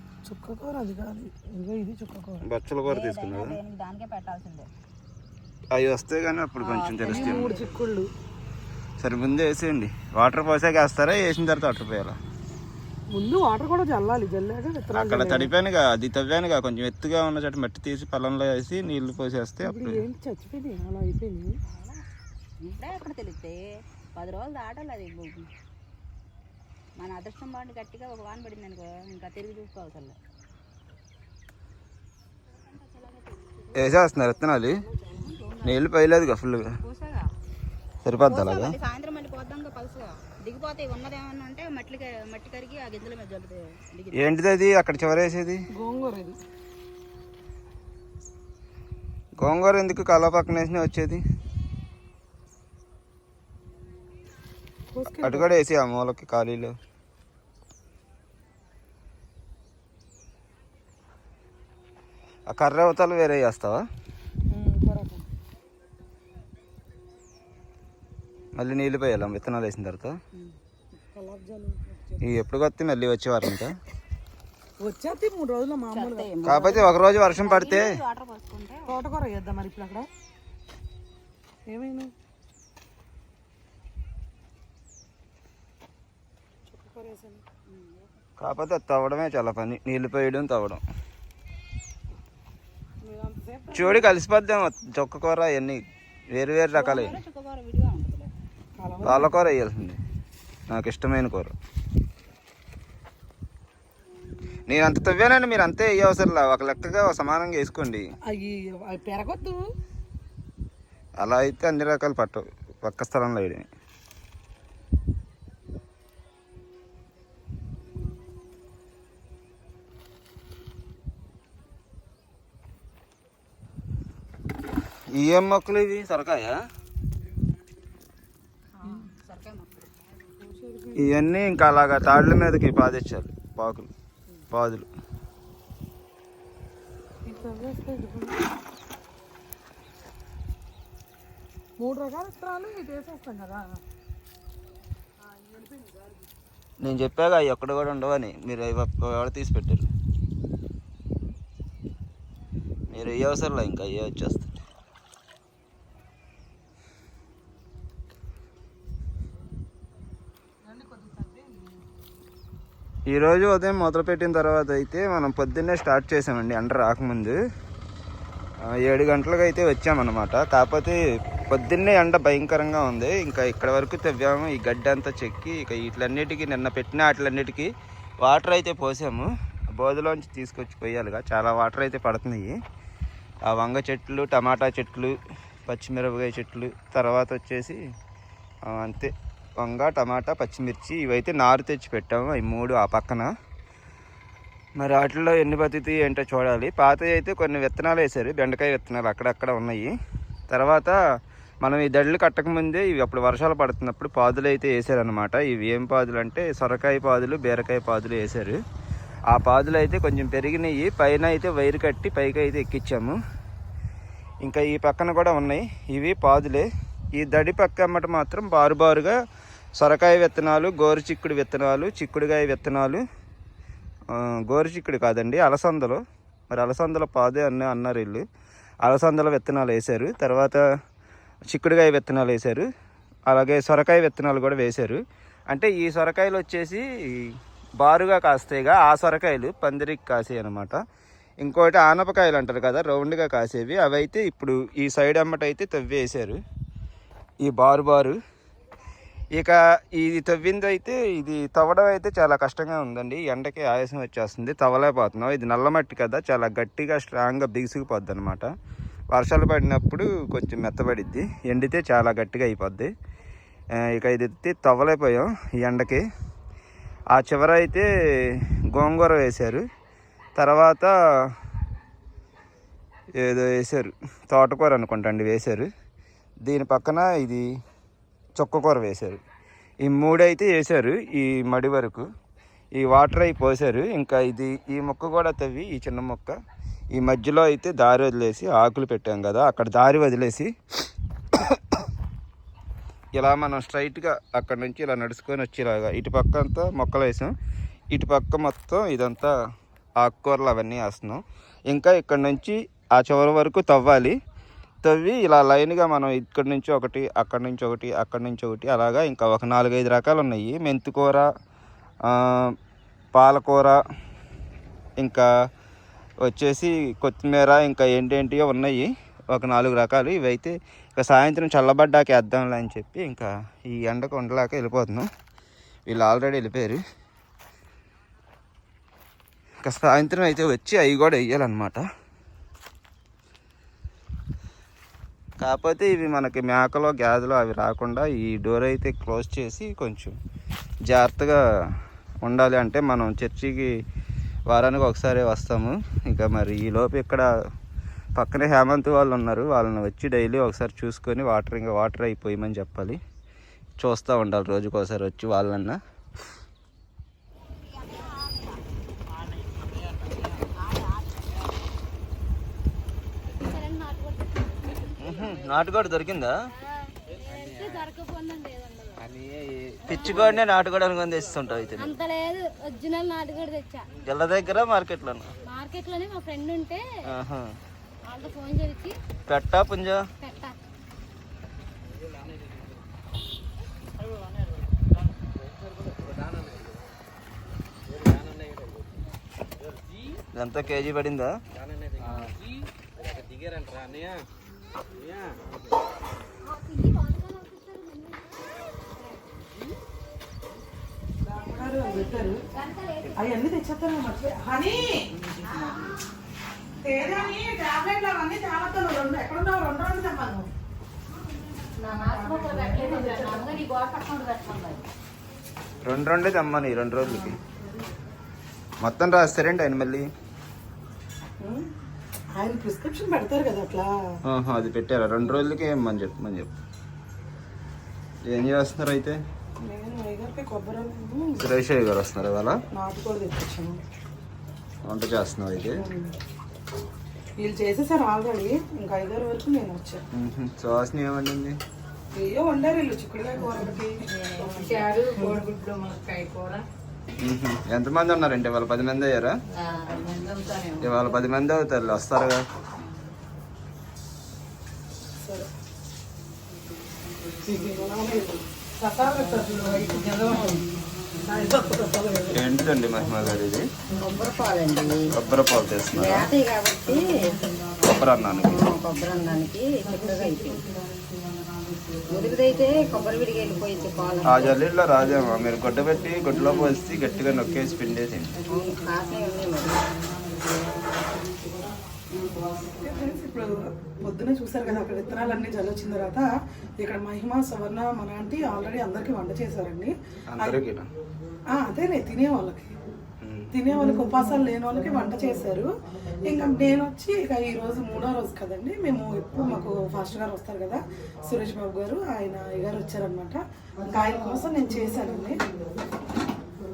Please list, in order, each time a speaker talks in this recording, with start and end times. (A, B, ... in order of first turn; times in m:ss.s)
0:00.2-0:02.5 A
0:02.4-0:03.6 B
0:02.9-0:04.7 C
0:05.7-0:07.5 B
0:06.6-0:07.7 C
0:07.0-0:08.1 A
0:09.0-0:12.2 B
0:13.1-0:15.5 A
0:14.9-0:20.0 B
0:19.6-0:21.6 A
0:21.7-0:22.0 C
0:22.6-0:25.5 C
0:27.0-0:30.2 C
0:32.7-0:33.7 C
0:33.8-0:34.8 B
0:35.0-0:35.9 C
0:35.6-0:36.6 B
0:36.8-0:37.3 C
0:38.0-0:38.8 B
0:38.3-0:44.4 C
0:44.2-0:45.6 B
0:45.7-0:46.4 A
0:49.4-0:51.2 B
0:54.9-0:55.6 A
0:55.1-0:56.8 B
1:02.5-1:03.8 B
1:04.5-1:05.2 A
1:08.6-1:10.2 B
1:10.4-1:12.2 A
1:12.2-1:13.8 B
1:14.8-1:16.3 A
1:15.9-1:19.0 C
1:16.4-1:17.9 B
1:18.9-1:20.1 A
1:21.7-1:22.1 A
1:26.7-1:27.4 A
1:27.7-1:28.1 C
1:28.4-1:30.8 B
1:33.0-1:34.1 A
1:33.7-1:37.2 B
1:36.7-1:38.3 C
1:38.8-1:39.3 A
1:39.0-1:40.0 B
1:40.7-1:41.5 B
1:44.7-1:48.0 B
1:48.3-1:49.6 A
1:51.2-1:53.7 B
2:05.1-2:06.6 B
2:08.8-2:09.7 C
2:10.4-2:11.1 A
2:11.0-2:13.9 B
2:14.5-2:14.9 B
2:17.2-2:18.4 A
2:21.8-2:23.8 A
2:25.2-2:26.3 A
2:26.8-2:29.9 B
2:32.9-2:34.6 B
2:40.7-2:41.6 A
2:43.1-2:47.4 B
2:48.6-2:51.0 B
2:51.5-2:57.7 B
2:58.2-3:02.6 B
3:03.5-3:07.8 B
3:08.7-3:13.3 B
3:14.8-3:19.9 B
3:20.5-3:21.0 B
3:21.6-3:28.6 B
3:29.3-3:33.2 B
3:34.4-3:39.2 B
3:39.8-3:43.0 B
3:44.1-3:48.2 B
3:48.8-3:50.6 B
3:51.5-3:52.7 B
3:53.3-4:00.8 B
4:01.4-4:06.4 B
4:07.4-4:08.2 B
4:09.4-4:18.5 B
4:19.1-4:22.9 B
4:23.8-4:26.0 B
4:27.1-4:29.6 B
4:30.4-4:30.9 B
4:33.2-4:35.7 B
4:36.4-4:37.5 B
4:38.4-4:39.2 B
4:39.8-4:42.1 B
4:42.8-4:46.4 B
4:46.9-4:50.5 B
4:51.3-4:51.8 B
4:53.2-4:57.3 B
4:57.9-4:59.3 B
5:00.0-5:04.2 B
5:04.8-5:11.3 B
5:12.1-5:12.5 B
5:13.2-5:13.8 B
5:15.0-5:15.3 B
5:16.2-5:25.1 B
5:25.9-5:26.8 B
5:29.6-5:31.8 B
5:35.4-5:40.2 B
5:40.9-5:41.4 B
5:42.2-5:43.7 B
5:44.5-5:47.3 B
5:48.2-5:53.0 B
5:53.8-5:55.8 B
5:57.8-5:58.5 C
6:00.3-6:01.2 C
6:03.4-6:05.5 D
6:05.0-6:06.4 B
6:06.5-6:09.2 D
6:09.8-6:12.0 B
6:09.9-6:10.4 D
6:11.7-6:13.9 D
6:14.0-6:15.3 B
6:15.4-6:16.8 D
6:17.0-6:17.5 B
6:18.0-6:19.0 D
6:19.3-6:20.0 B
6:20.2-6:20.6 D
6:30.4-6:31.4 B
6:36.8-6:38.1 D
6:41.2-6:42.4 A
6:42.6-6:43.1 C
6:43.0-6:43.3 B
6:43.2-6:45.0 A
6:45.4-6:46.0 C
6:46.8-6:50.5 A
6:51.8-6:54.8 C
6:51.8-6:53.6 A
6:55.8-6:57.4 B
6:58.8-7:00.1 B
7:01.4-7:01.7 A
7:02.4-7:03.9 A
7:04.3-7:06.5 B
7:08.3-7:09.2 B
7:09.6-7:11.4 A
7:11.4-7:12.6 B
7:12.7-7:13.8 A
7:14.8-7:15.8 B
7:15.8-7:16.2 A
7:17.4-7:20.0 A
7:20.2-7:21.6 B
7:22.1-7:25.4 A
7:23.4-7:26.6 C
7:27.2-7:29.4 B
7:29.6-7:31.2 C
7:30.8-7:32.4 B
7:32.8-7:33.1 C
7:35.2-7:35.5 A
7:37.4-7:42.4 A
7:40.3-7:40.6 C
7:42.3-7:43.7 B
7:44.0-7:45.0 C
7:45.1-7:46.3 B
7:45.9-7:47.0 C
7:47.8-7:48.6 B
7:48.5-7:50.6 C
7:52.1-7:54.6 C
7:54.2-7:58.4 B
7:58.5-8:00.9 C
8:02.1-8:02.4 C
8:02.8-8:10.6 A
8:10.3-8:10.9 B
8:11.5-8:12.8 A
8:13.2-8:13.5 B
8:13.5-8:15.7 A
8:16.2-8:25.4 A